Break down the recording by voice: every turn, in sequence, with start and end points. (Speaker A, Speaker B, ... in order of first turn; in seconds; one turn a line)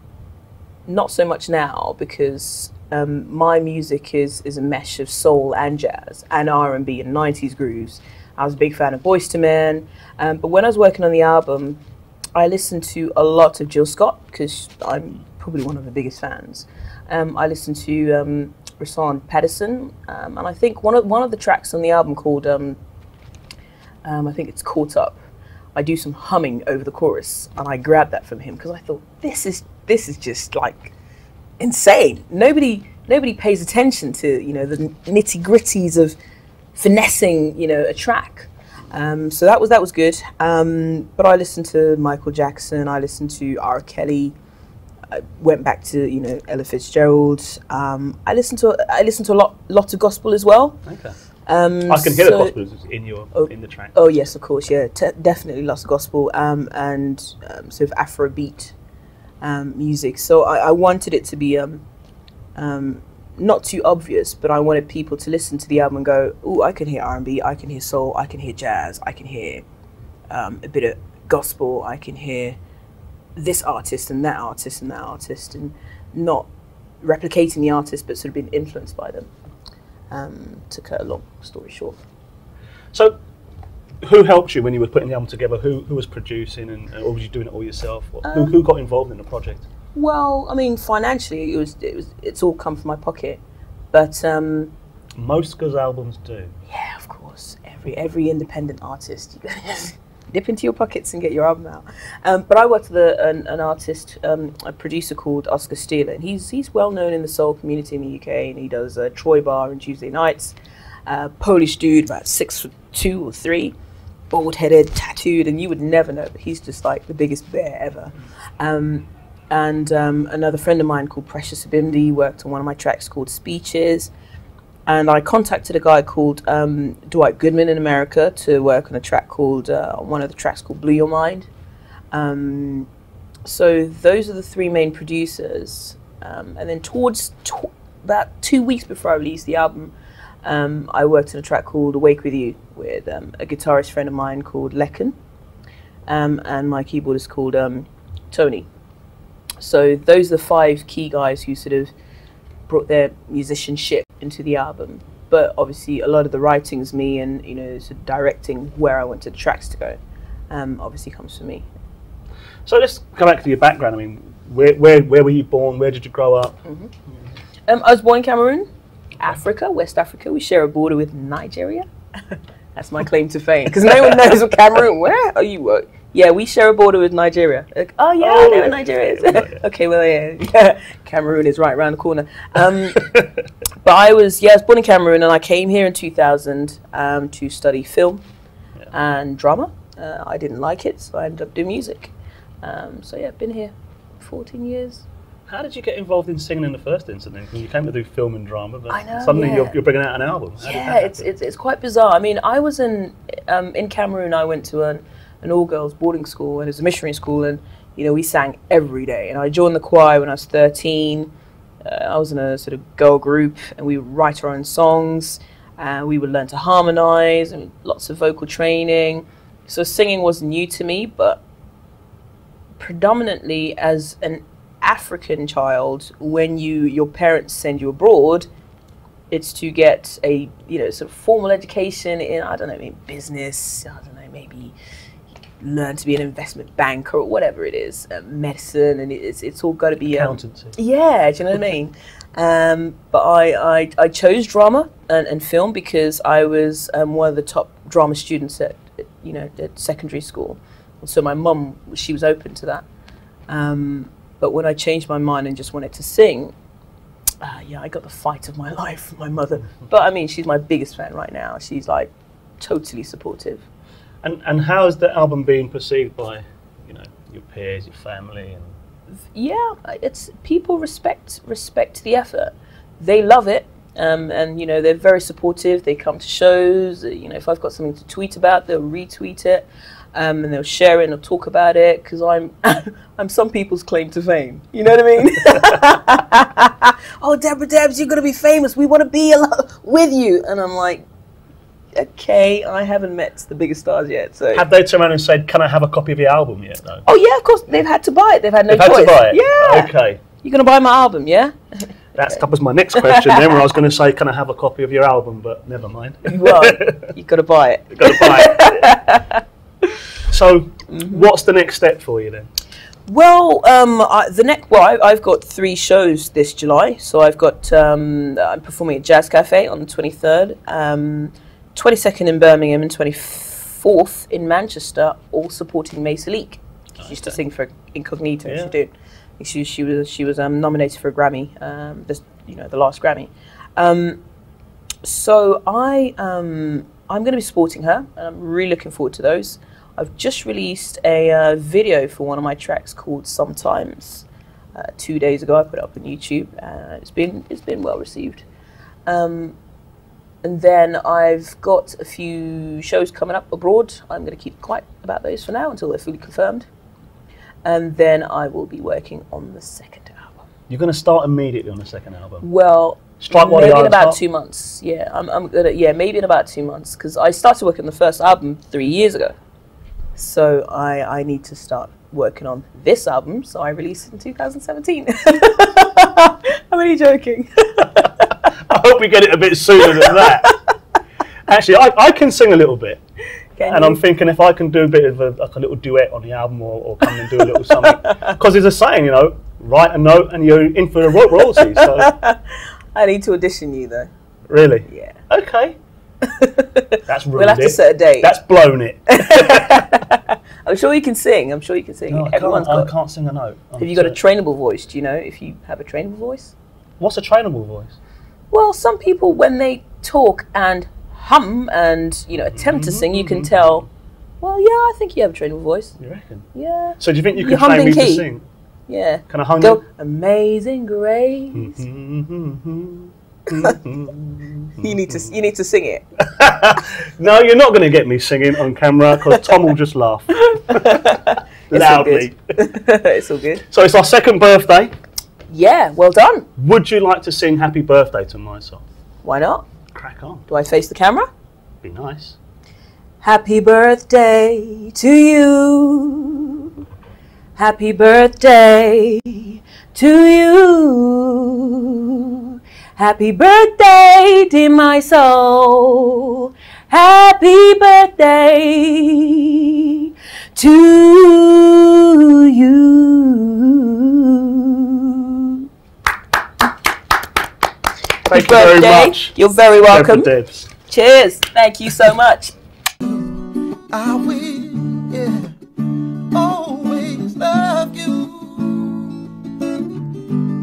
Speaker A: 0.8-11.8
Speaker A: 12.3-22.8
Speaker A: 24.0-25.2
Speaker A: 25.7-30.9
Speaker A: 31.6-36.1
Speaker A: 36.7-44.4
Speaker A: 45.1-50.8
Speaker B: 50.9-51.1
Speaker A: 51.5-52.5
Speaker B: 51.9-53.9
Speaker A: 53.3-58.7
Speaker A: 59.4-61.8
Speaker A: 62.5-69.6
Speaker A: 70.3-72.6
Speaker A: 73.3-76.5
Speaker A: 77.0-79.3
Speaker A: 80.1-82.0
Speaker B: 84.0-89.6
Speaker A: 88.2-88.6
Speaker A: 89.9-93.4
Speaker A: 93.9-94.7
Speaker B: 95.2-96.5
Speaker A: 96.7-110.5
Speaker A: 111.1-113.7
Speaker A: 114.3-124.1
Speaker A: 124.9-131.5
Speaker A: 132.1-132.9
Speaker A: 133.4-145.1
Speaker A: 146.1-148.7
Speaker A: 149.6-151.9
Speaker A: 152.7-160.0
Speaker A: 160.5-161.7
Speaker B: 162.7-166.5
Speaker A: 166.7-166.9
Speaker A: 167.7-168.7
Speaker A: 169.2-171.8
Speaker A: 172.7-183.1
Speaker B: 178.2-179.6
Speaker B: 182.9-183.3
Speaker A: 183.8-188.2
Speaker A: 188.9-195.0
Speaker B: 195.5-201.2
Speaker A: 198.9-199.8
Speaker A: 200.6-211.3
Speaker A: 211.8-221.4
Speaker A: 222.8-228.5
Speaker A: 229.3-234.7
Speaker A: 235.6-252.8
Speaker B: 240.1-240.8
Speaker A: 253.5-256.5
Speaker A: 257.4-263.6
Speaker B: 264.2-268.7
Speaker A: 269.3-291.1
Speaker A: 291.9-294.6
Speaker B: 294.5-297.0
Speaker A: 297.1-299.9
Speaker B: 298.7-300.2
Speaker A: 300.4-301.5
Speaker A: 302.2-302.4
Speaker B: 302.2-307.1
Speaker A: 302.9-303.6
Speaker A: 306.3-310.0
Speaker B: 307.9-308.9
Speaker B: 310.3-312.5
Speaker A: 310.9-311.2
Speaker A: 313.1-334.2
Speaker B: 327.0-327.4
Speaker B: 328.4-328.7
Speaker A: 335.0-348.4
Speaker A: 349.1-349.6
Speaker A: 350.4-356.7
Speaker A: 357.6-360.4
Speaker B: 360.7-362.5
Speaker A: 362.4-369.3
Speaker B: 363.2-364.2
Speaker A: 370.1-378.4
Speaker B: 378.5-380.5
Speaker A: 379.8-380.6
Speaker B: 381.5-383.0
Speaker A: 383.6-384.0
Speaker B: 383.6-392.1
Speaker A: 387.1-388.3
Speaker A: 391.3-394.1
Speaker B: 394.5-395.8
Speaker A: 394.9-395.2
Speaker A: 396.2-398.3
Speaker B: 397.1-400.0
Speaker A: 399.1-402.9
Speaker B: 402.1-404.2
Speaker A: 403.8-406.5
Speaker B: 407.0-408.0
Speaker A: 408.5-413.9
Speaker B: 412.4-413.6
Speaker A: 414.4-415.9
Speaker B: 416.0-416.5
Speaker A: 416.5-418.2
Speaker B: 417.0-418.4
Speaker A: 418.9-421.8
Speaker B: 419.3-419.8
Speaker B: 421.5-425.3
Speaker A: 423.5-423.8
Speaker A: 424.8-426.0
Speaker B: 426.2-431.1
Speaker A: 430.4-433.6
Speaker B: 431.7-432.4
Speaker B: 433.7-434.9
Speaker A: 435.5-436.5
Speaker B: 436.6-438.8
Speaker A: 439.2-439.6
Speaker B: 439.9-440.4
Speaker A: 440.5-441.3
Speaker B: 441.8-442.4
Speaker A: 443.2-446.7
Speaker A: 447.6-465.7
Speaker B: 468.3-470.7
Speaker A: 468.3-470.3
Speaker A: 470.8-472.5
Speaker C: 473.0-479.2